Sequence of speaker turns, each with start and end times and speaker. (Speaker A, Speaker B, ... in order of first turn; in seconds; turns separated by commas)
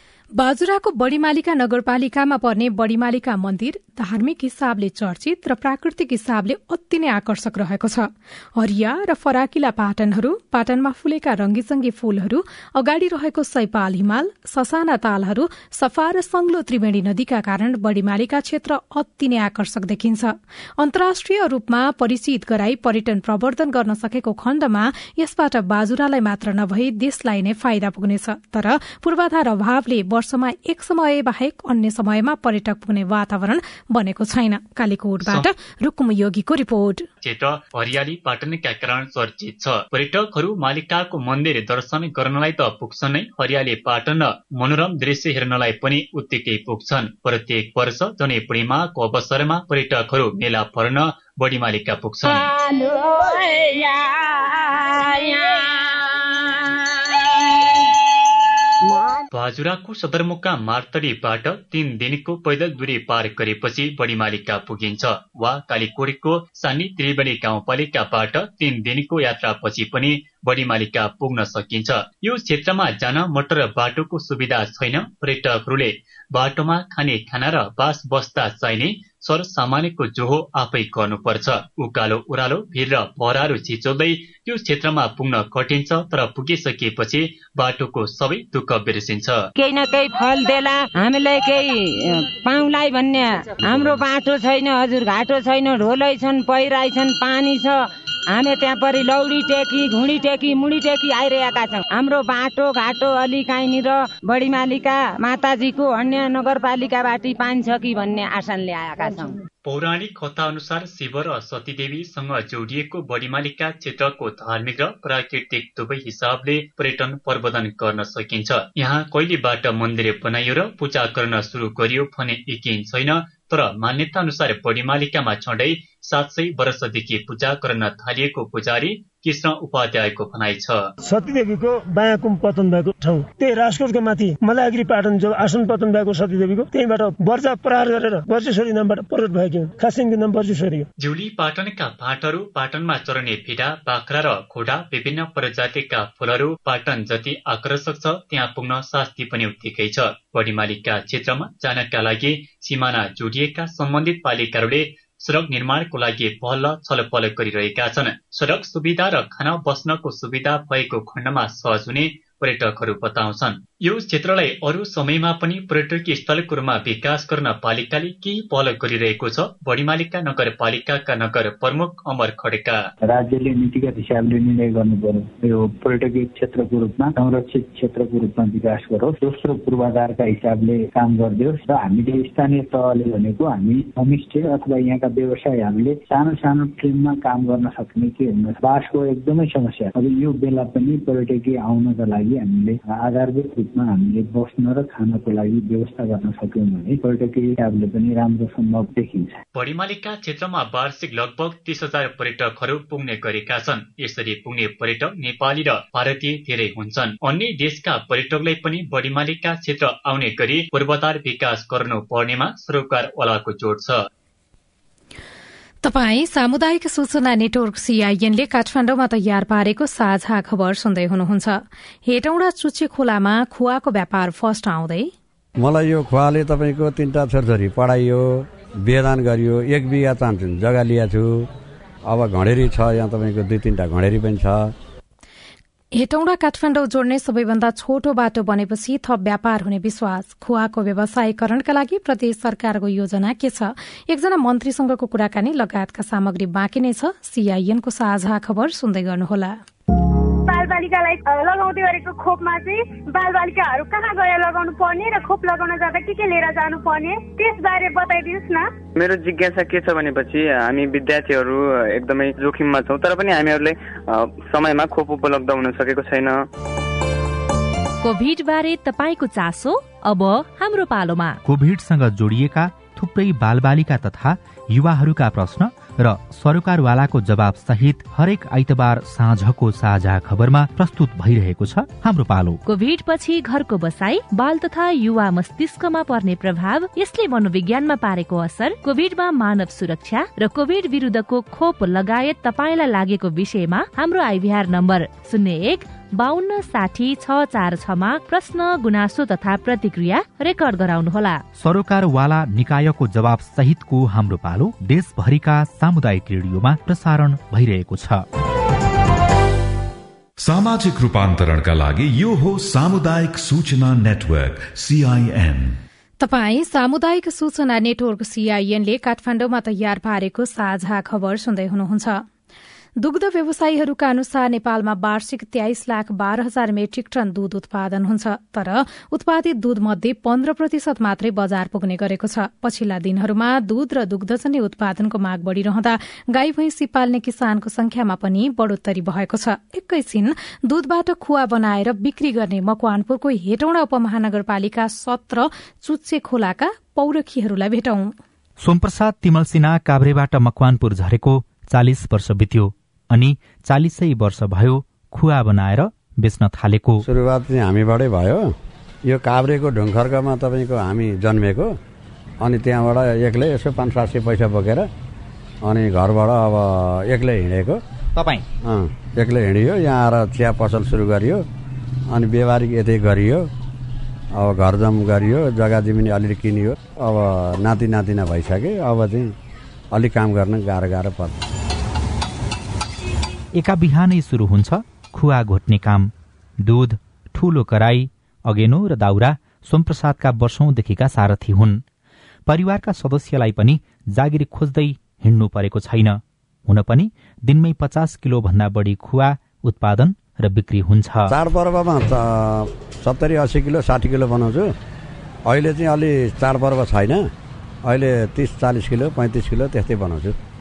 Speaker A: 0.4-37.0, Speaker B: 35.2-35.5, Speaker B: 37.2-52.5, Speaker C: 52.3-54.0, Speaker C: 55.0-55.6, Speaker B: 59.3-89.5, Speaker C: 89.6-97.8, Speaker C: 98.3-109.3, Speaker B: 109.6-130.9, Speaker D: 131.0-140.8, Speaker B: 141.0-172.8, Speaker E: 173.0-199.4, Speaker B: 199.5-214.0, Speaker A: 215.8-225.1, Speaker F: 225.6-231.5, Speaker F: 232.1-234.7, Speaker A: 236.0-249.6, Speaker G: 250.5-258.7, Speaker H: 258.9-266.4, Speaker I: 268.0-271.4, Speaker J: 271.4-282.6, Speaker I: 282.6-301.4, Speaker J: 301.6-308.2, Speaker K: 310.4-315.8, Speaker A: 316.2-322.2, Speaker A: 323.0-348.1, Speaker J: 348.6-357.1, Speaker F: 357.1-358.5, Speaker F: 359.1-361.7, Speaker F: 362.4-364.9, Speaker F: 365.6-367.8, Speaker J: 368.1-368.4, Speaker F: 368.6-371.4, Speaker F: 372.1-373.5, Speaker F: 374.4-379.3, Speaker F: 379.9-381.4, Speaker J: 383.6-386.1, Speaker J: 386.6-391.8, Speaker J: 392.5-401.3, Speaker F: 401.3-404.7, Speaker F: 405.5-407.3, Speaker F: 407.8-410.3